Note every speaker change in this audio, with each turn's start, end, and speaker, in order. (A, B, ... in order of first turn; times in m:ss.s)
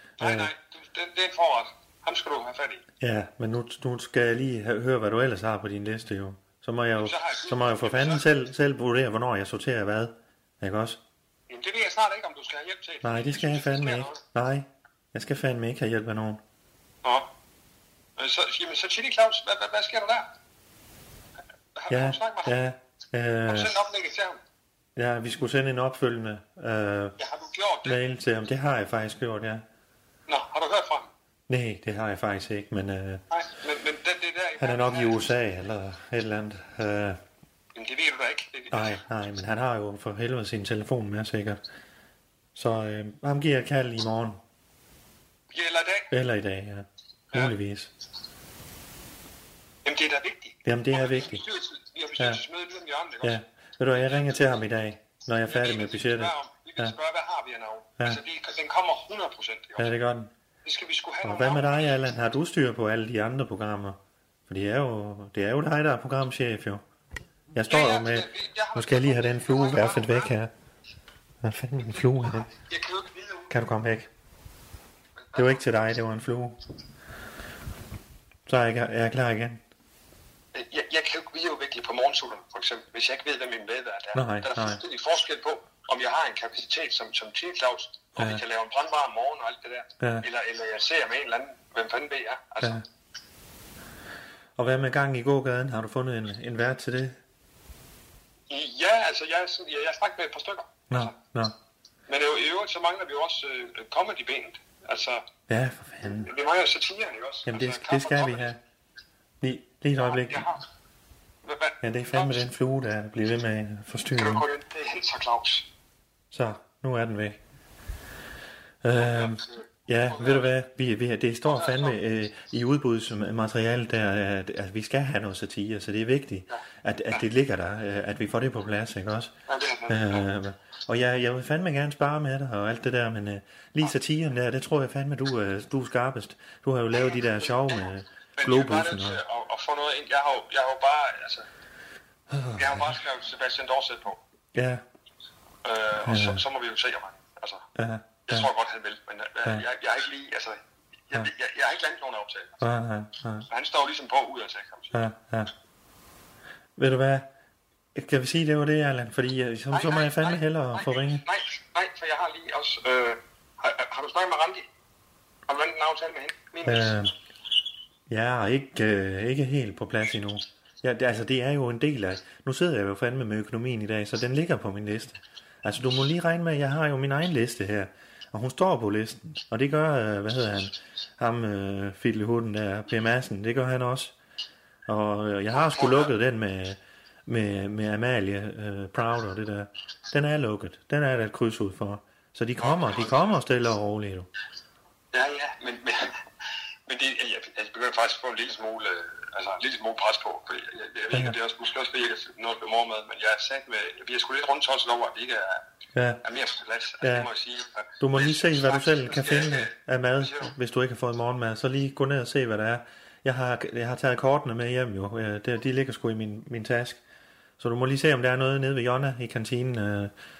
0:00.2-0:00.5 A
0:00.2-0:02.8 B
0:03.0-0:11.0 A
0:07.0-0:08.2 B
0:11.5-0:14.2 B
0:13.0-0:16.4 A
0:18.2-0:20.3 B
0:21.7-0:22.5 B
0:21.9-0:23.7 A
0:23.5-0:24.4 B
0:25.0-0:27.2 A
0:27.2-0:28.0 B
0:27.8-0:29.6 A
0:30.3-0:31.1 B
0:31.5-0:33.2 A
0:33.3-0:35.2 B
0:34.6-0:37.2 A
0:37.7-0:39.0 B
0:38.7-0:41.6 A
0:42.5-0:44.4 A
0:45.5-0:46.1 B
0:46.1-0:47.9 A
0:49.8-0:53.4 B
0:50.6-0:51.4 A
0:53.2-0:56.9 A
0:53.9-0:54.6 B
0:55.5-1:00.0 B
0:59.8-1:00.3 A
1:00.6-1:02.0 B
1:01.2-1:06.8 A
1:07.5-1:10.5 A
1:07.7-1:10.3 B
1:11.4-1:12.5 A
1:11.8-1:13.5 B
1:13.5-1:14.1 A
1:15.2-1:15.5 B
1:15.3-1:16.6 A
1:18.5-1:19.6 A
1:20.5-1:32.8 B
1:24.1-1:24.8 A
1:28.2-1:28.4 A
1:30.0-1:30.2 A
1:34.6-1:37.2 A
1:38.5-1:41.1 B
1:40.9-1:41.5 A
1:42.1-1:45.2 B
1:45.5-1:46.3 A
1:46.0-1:48.5 B
1:47.4-1:48.6 A
1:49.4-1:50.5 A
1:50.0-1:50.6 B
1:51.4-1:52.4 B
1:51.8-1:54.4 A
1:54.2-1:55.6 B
1:56.3-1:57.4 A
1:58.8-2:09.3 A
1:59.0-2:00.5 B
2:01.4-2:02.0 B
2:09.5-2:10.2 B
2:09.9-2:19.2 A
2:18.4-2:21.4 B
2:22.3-2:23.0 A
2:22.6-2:24.2 B
2:24.5-2:24.8 A
2:25.6-2:27.6 B
2:26.0-2:26.4 A
2:27.8-2:28.5 A
2:28.3-2:32.6 B
2:32.6-2:33.5 A
2:33.5-2:35.0 B
2:34.9-2:35.5 A
2:36.8-2:37.3 A
2:37.9-2:41.2 A
2:39.7-2:44.6 B
2:45.5-2:47.0 B
2:46.6-2:47.1 A
2:48.1-3:04.1 A
3:04.9-3:14.3 A
3:05.5-3:06.1 B
3:12.6-3:13.2 B
3:15.1-3:16.1 B
3:16.9-3:25.6 B
3:21.1-3:21.4 A
3:25.9-3:26.2 A
3:26.2-3:30.5 B
3:27.0-3:27.3 A
3:28.0-3:37.0 A
3:37.6-3:40.1 A